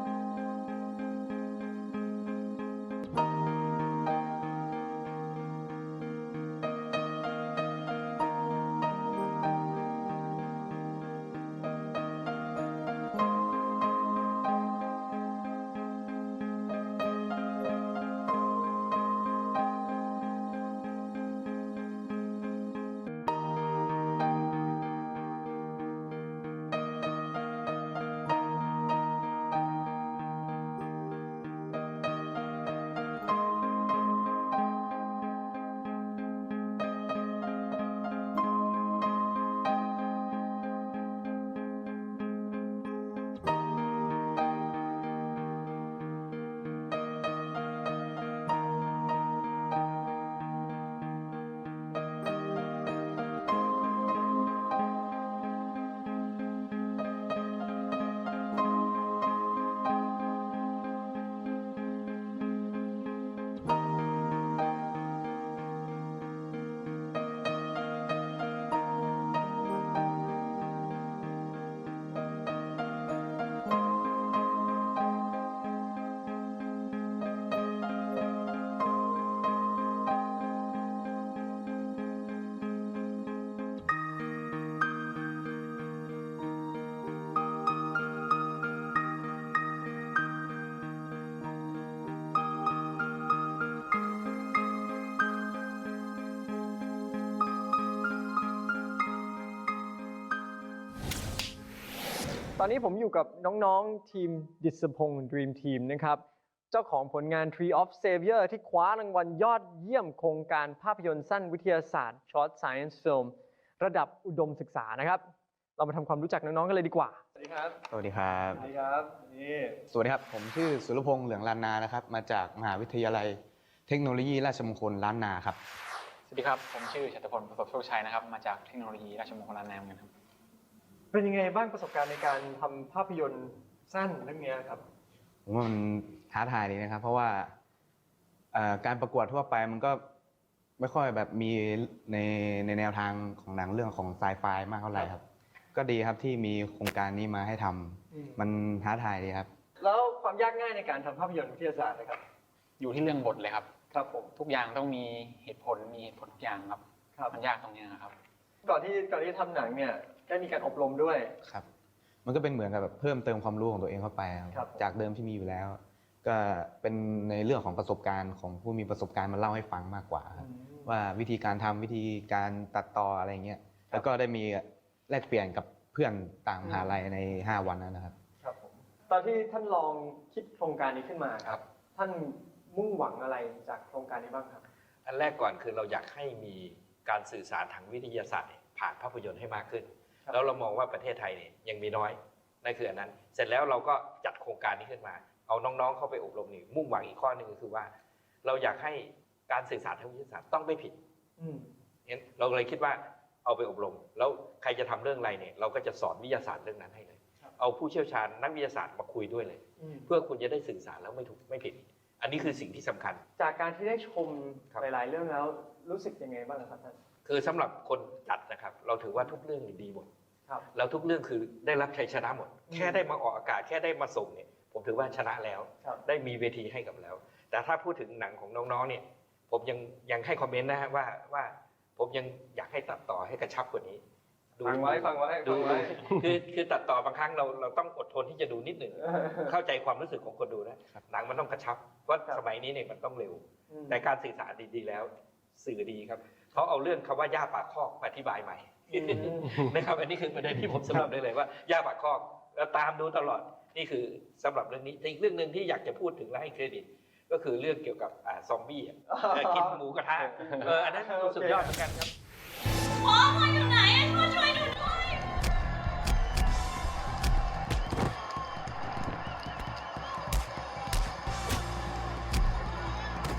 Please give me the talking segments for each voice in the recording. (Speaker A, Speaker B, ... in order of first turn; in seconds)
Speaker A: 102.6-117.8, 118.5-119.8, 131.1-134.8, 148.1-148.4, 149.8-152.2, 153.9-154.3, 158.6-161.3, 164.5-164.8, 170.4-170.9, 176.6-176.9, 178.4-184.6, 201.4-201.7, 209.8-210.1, 213.4-217.0, 222.7-223.0, 234.6-236.1, 239.1-239.4, 243.7-244.0, 248.9-249.5, 259.1-261.9
Speaker B: 117.9-118.7, 119.9-125.6, 135.4-137.5, 138.5-140.0, 140.8-145.2, 145.7-149.5, 162.2-178.1
Speaker C: 126.3-130.1, 152.8-153.7, 154.3-158.1
Speaker D: 185.1-197.9, 198.4-201.0, 202.1-213.2, 217.2-220.1, 220.7-234.0, 234.6-262.0
Speaker E: 262.9-265.2